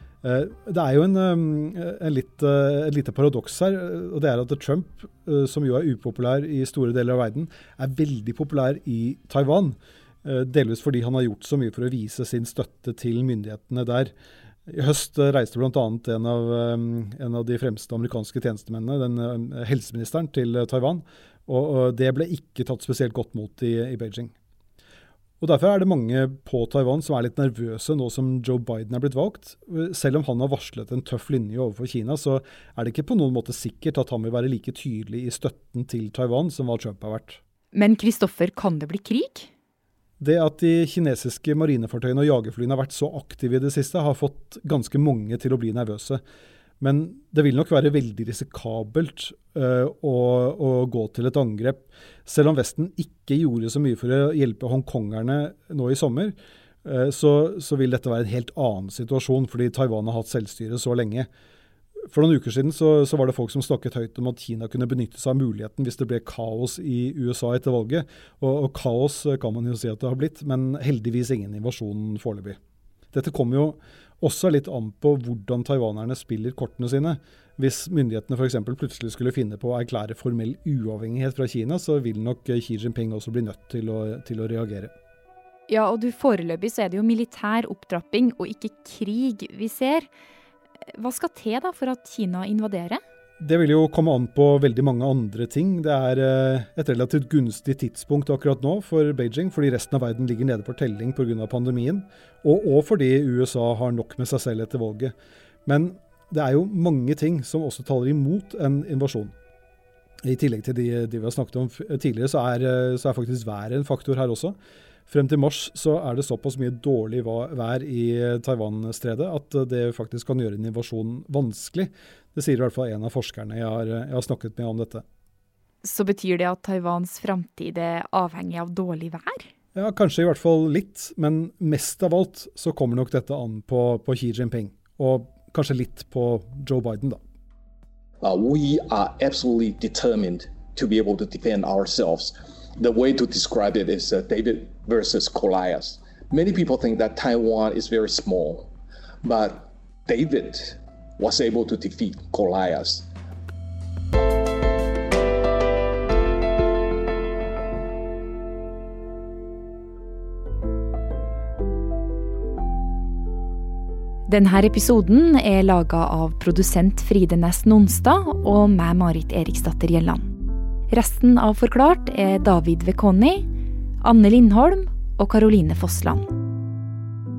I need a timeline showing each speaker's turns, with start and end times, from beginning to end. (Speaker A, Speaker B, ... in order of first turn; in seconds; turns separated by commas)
Speaker A: 0.2-14.1, Speaker A: 14.7-24.3, Speaker A: 25.4-37.4, Speaker B: 37.7-39.5, Speaker A: 40.2-46.2, Speaker A: 46.8-61.3, Speaker A: 62.1-72.6, Speaker A: 73.1-84.9, Speaker B: 85.7-90.1, Speaker B: 90.9-93.0, Speaker A: 93.4-105.1, Speaker A: 105.7-109.3, Speaker A: 110.2-114.5, Speaker A: 115.1-125.0, Speaker B: 125.8-129.5, Speaker A: 129.7-137.2, Speaker C: 138.2-148.7, Speaker C: 149.2-153.1, Speaker B: 164.3-170.3, Speaker B: 170.9-173.5, Speaker B: 174.0-176.3